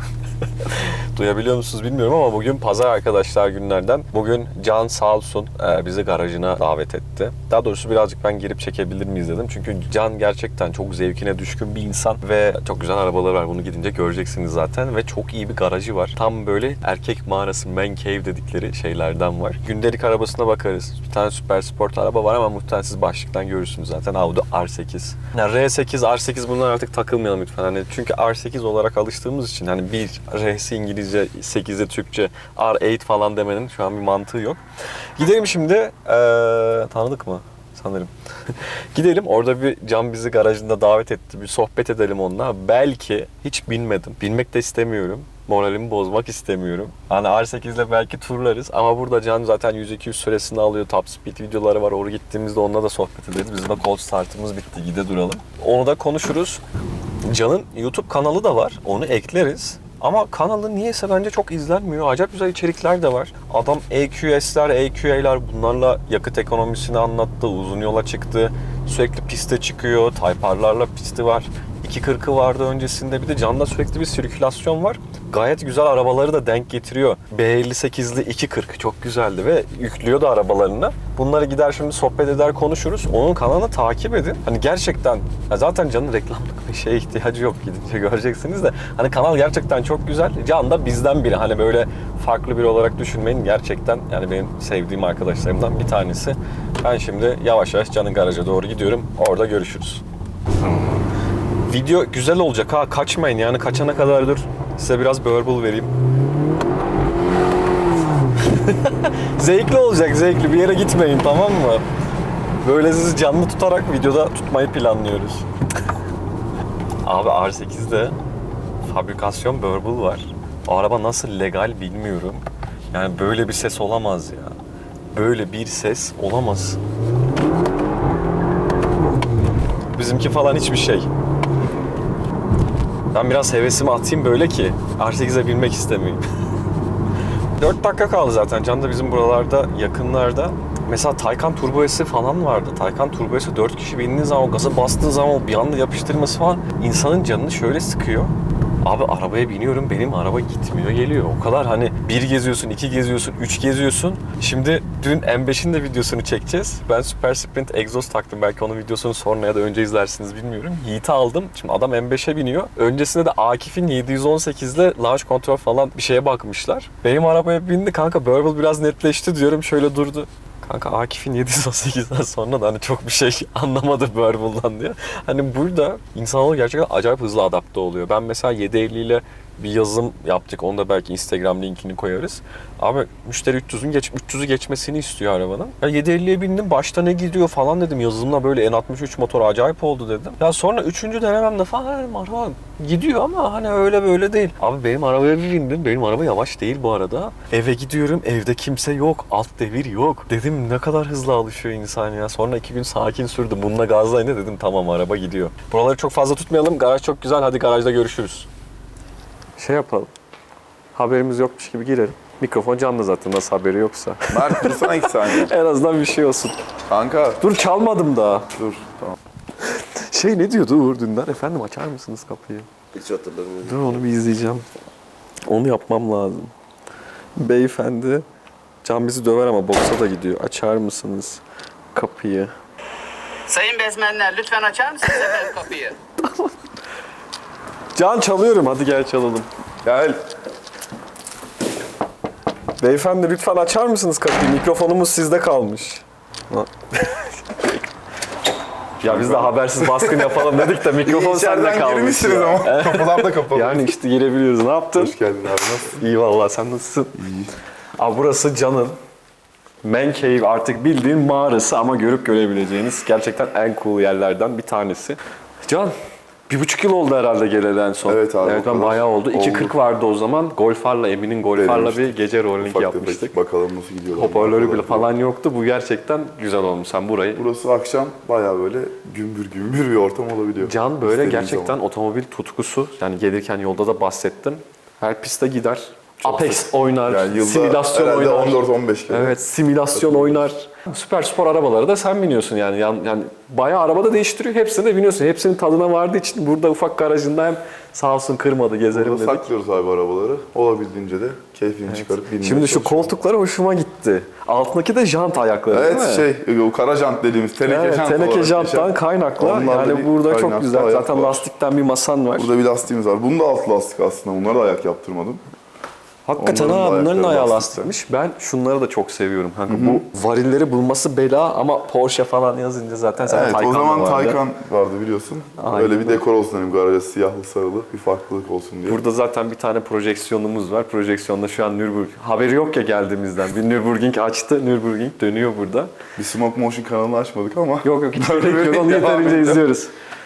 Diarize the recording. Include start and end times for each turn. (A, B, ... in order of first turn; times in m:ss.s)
0:00.6-0:34.6 A
0:35.2-0:56.6 A
0:57.2-1:40.0 A
1:41.6-1:45.9 A
1:48.4-1:51.8 A
1:52.6-1:55.4 A
1:57.0-1:58.2 A
1:58.8-2:04.6 A
2:05.1-2:06.8 A
2:09.9-2:11.1 A
2:13.1-2:16.2 A
2:17.6-3:28.5 A
3:29.6-3:30.1 A
3:31.0-3:36.6 A
3:34.3-3:35.5 B
3:36.9-3:37.4 B
3:37.4-3:38.5 A
3:38.6-3:39.2 B
3:39.6-3:42.7 A
3:43.5-3:44.6 A
3:45.5-3:46.5 A
3:47.4-3:48.2 A
3:48.8-3:51.4 A
3:51.9-3:52.5 A
3:53.5-3:56.0 C
3:56.2-3:56.5 A
3:58.0-3:59.5 A
3:59.8-4:00.2 B
4:02.8-4:07.8 A
4:09.0-4:14.0 B
4:09.0-4:15.2 A
4:15.0-4:16.0 B
4:15.8-4:17.2 A
4:17.2-4:17.5 B
4:18.0-4:19.0 A
4:19.8-4:25.9 A
4:26.5-4:33.4 A
4:28.0-4:29.8 B
4:31.6-4:35.1 B
4:34.2-4:37.4 A
4:37.3-4:41.8 B
4:40.6-4:59.5 A
4:46.2-4:49.4 B
4:49.9-4:50.4 B
4:58.9-5:03.2 B
5:01.9-5:06.3 A
5:05.7-5:11.5 B
5:07.6-5:12.5 A
5:12.4-5:15.4 B
5:16.3-5:24.4 A
5:16.4-5:17.9 B
5:19.7-5:20.0 B
5:23.2-5:29.0 B
5:25.6-5:26.2 A
5:28.9-5:35.9 A
5:36.2-5:39.6 B
5:37.8-5:39.9 A